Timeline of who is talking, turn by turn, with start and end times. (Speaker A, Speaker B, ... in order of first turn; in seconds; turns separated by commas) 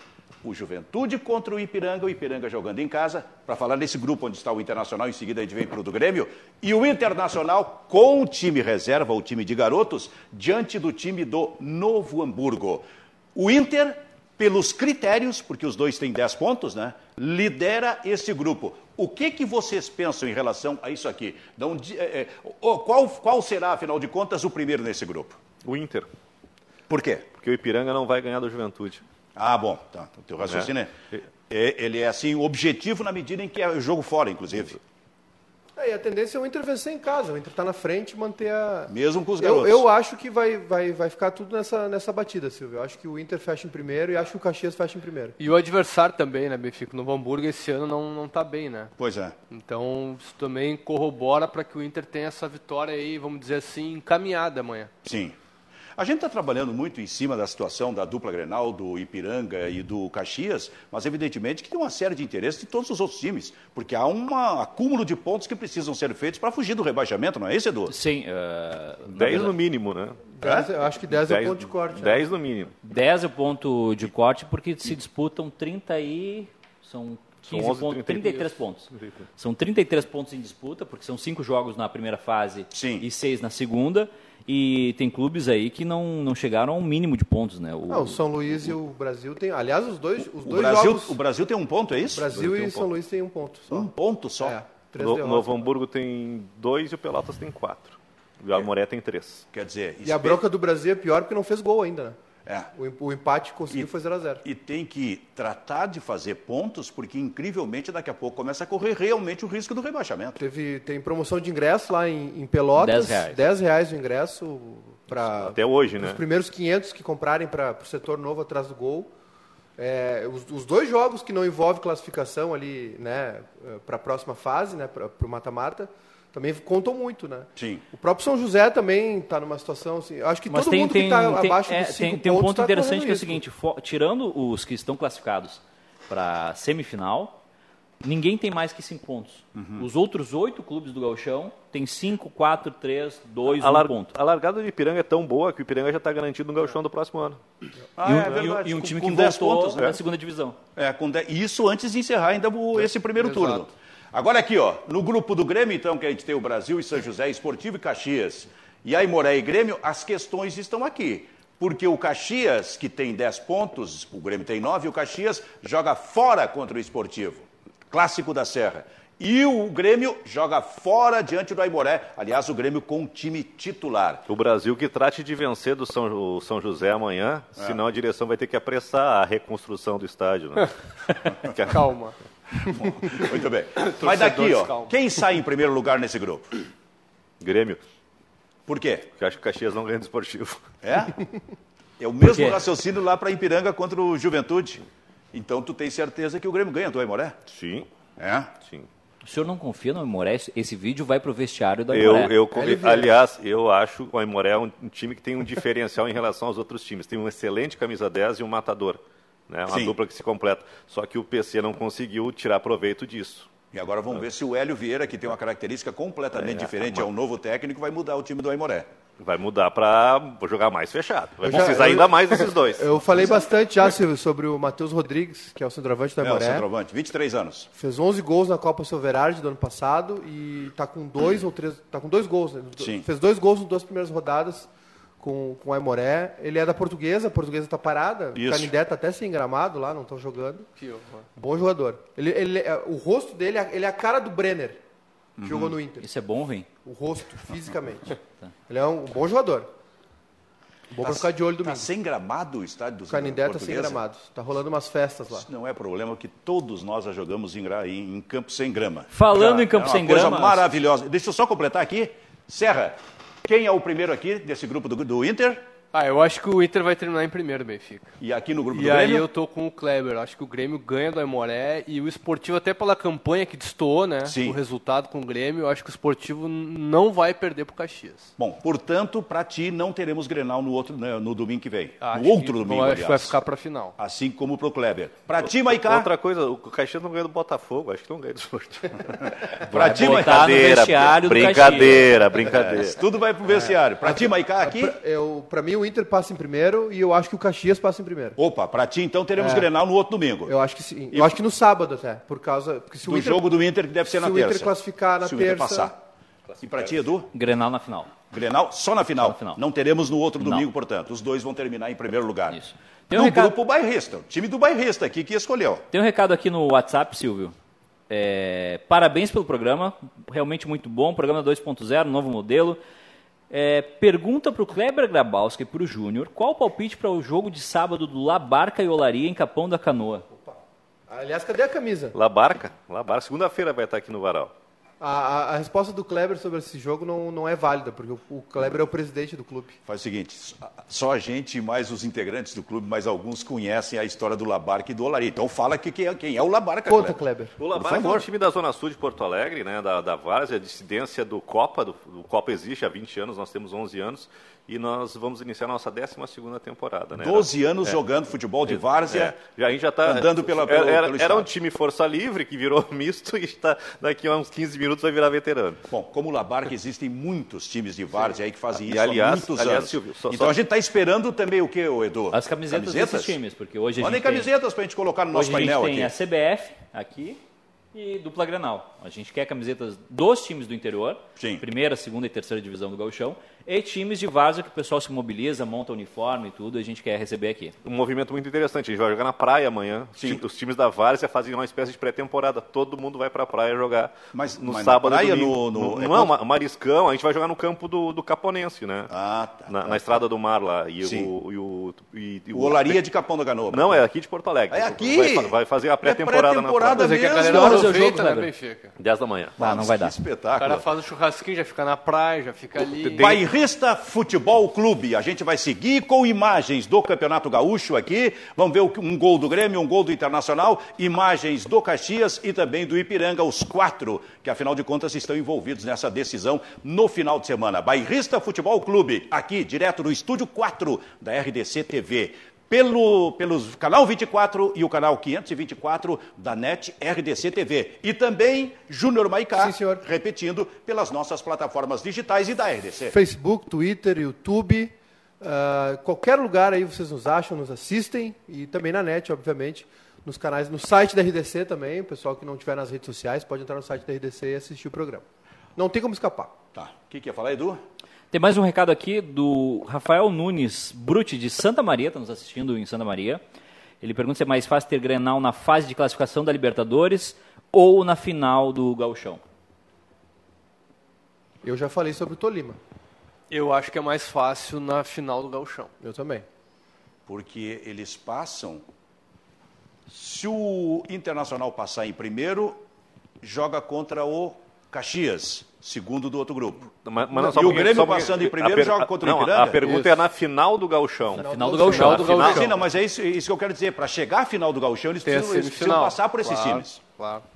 Speaker A: 0.4-25.4, Speaker B: 25.6-26.1, Speaker A: 26.9-27.3, Speaker B: 27.4-29.0, Speaker A: 29.4-31.0, Speaker A: 31.5-34.8, Speaker C: 35.8-45.4, Speaker A: 38.9-39.9, Speaker D: 45.4-48.9, Speaker A: 49.0-49.4, Speaker D: 49.5-54.9, Speaker A: 55.0-55.4, Speaker A: 56.0-67.9, Speaker E: 67.9-69.5, Speaker B: 69.1-70.2, Speaker C: 70.3-72.2, Speaker A: 70.4-70.7, Speaker B: 71.1-72.8, Speaker E: 72.8-88.7, Speaker B: 77.4-79.3, Speaker A: 82.7-83.1, Speaker C: 87.9-91.2, Speaker A: 90.4-92.9, Speaker C: 92.1-95.7, Speaker A: 93.7-94.6, Speaker B: 95.0-99.5, Speaker A: 99.5-100.4, Speaker C: 100.0-102.2, Speaker C: 102.7-104.4, Speaker A: 104.4-110.4, Speaker C: 110.4-119.1, Speaker E: 112.8-113.4, Speaker B: 115.1-116.2, Speaker C: 119.8-133.4, Speaker A: 127.6-127.8, Speaker E: 130.5-137.4, Speaker E: 138.0-144.1, Speaker A: 139.6-139.9, Speaker B: 143.5-147.4, Speaker A: 148.0-150.0, Speaker E: 148.0-150.6, Speaker A: 150.8-174.3, Speaker D: 153.2-153.6, Speaker B: 174.3-180.8, Speaker B: 181.4-181.8, Speaker D: 181.6-182.2, Speaker A: 182.6-186.5, Speaker D: 183.8-184.9, Speaker B: 187.4-187.8, Speaker A: 188.7-189.1, Speaker B: 189.2-190.6, Speaker A: 190.8-191.2, Speaker A: 192.0-194.8, Speaker E: 192.2-192.6, Speaker A: 195.3-197.4, Speaker B: 197.5-197.9, Speaker A: 198.2-198.5, Speaker B: 198.6-198.9, Speaker E: 199.2-202.3, Speaker B: 201.9-213.5, Speaker C: 202.5-203.2, Speaker A: 209.7-210.0, Speaker A: 213.7-218.9, Speaker B: 216.4-217.1, Speaker B: 219.2-223.3, Speaker C: 221.5-226.7, Speaker A: 226.2-227.7, Speaker C: 227.8-234.7, Speaker A: 232.8-233.1, Speaker C: 235.2-240.7, Speaker A: 238.3-238.7, Speaker D: 240.8-241.3, Speaker C: 241.4-244.8, Speaker A: 245.4-245.8, Speaker C: 245.4-246.1, Speaker E: 246.0-246.7, Speaker C: 246.8-249.7, Speaker C: 250.9-251.9, Speaker A: 251.0-254.0, Speaker C: 253.1-255.5, Speaker A: 255.3-265.6, Speaker E: 259.1-260.7, Speaker D: 265.9-268.1, Speaker A: 268.2-269.3, Speaker D: 268.7-278.3, Speaker A: 274.2-274.6, Speaker A: 278.4-283.4, Speaker D: 282.0-283.9, Speaker A: 284.0-286.1, Speaker B: 285.5-293.0, Speaker A: 289.6-291.7, Speaker E: 289.7-292.1, Speaker A: 292.4-295.0, Speaker C: 293.5-298.4, Speaker A: 298.4-300.5, Speaker C: 299.4-299.7, Speaker C: 300.5-303.5, Speaker A: 301.1-301.4, Speaker A: 303.1-306.0, Speaker C: 304.1-305.9, Speaker A: 306.6-307.3, Speaker E: 307.3-308.1, Speaker A: 308.3-315.9, Speaker E: 309.2-309.6, Speaker E: 310.4-310.7, Speaker E: 312.5-313.6, Speaker E: 315.9-317.6, Speaker E: 318.1-322.8, Speaker E: 323.5-330.3, Speaker C: 331.1-332.1, Speaker B: 332.1-334.5, Speaker C: 335.0-339.8, Speaker A: 339.9-347.2, Speaker C: 346.9-347.6, Speaker B: 347.6-358.0, Speaker A: 347.7-348.3, Speaker A: 357.2-359.4, Speaker B: 358.7-365.8, Speaker A: 360.0-361.5, Speaker A: 365.9-373.4, Speaker B: 368.7-370.6, Speaker E: 372.3-374.5, Speaker A: 374.0-376.1, Speaker E: 375.3-377.4, Speaker E: 377.9-387.8, Speaker A: 381.4-381.6, Speaker B: 387.8-399.1, Speaker A: 390.2-390.4, Speaker A: 394.3-396.3, Speaker A: 399.1-400.2, Speaker B: 399.7-403.0, Speaker A: 401.0-401.3, Speaker A: 402.5-404.0, Speaker B: 403.7-407.1, Speaker A: 404.7-407.9, Speaker D: 406.9-408.9, Speaker E: 407.4-408.5, Speaker C: 407.5-408.2, Speaker B: 409.0-409.6, Speaker A: 409.6-410.9, Speaker E: 409.6-410.1, Speaker D: 410.6-413.4, Speaker B: 413.0-413.4, Speaker A: 413.2-443.2, Speaker C: 439.6-440.0, Speaker C: 443.1-455.2, Speaker C: 455.8-456.5, Speaker A: 456.7-457.8, Speaker E: 458.3-463.4, Speaker E: 464.0-469.4, Speaker C: 471.6-472.8, Speaker D: 473.5-475.9, Speaker C: 476.0-476.4, Speaker A: 477.3-478.8, Speaker A: 480.1-482.8, Speaker A: 483.4-490.0, Speaker B: 487.1-492.7, Speaker C: 491.3-492.5, Speaker E: 491.5-492.6, Speaker D: 491.9-492.8, Speaker A: 492.4-497.0, Speaker D: 495.2-497.4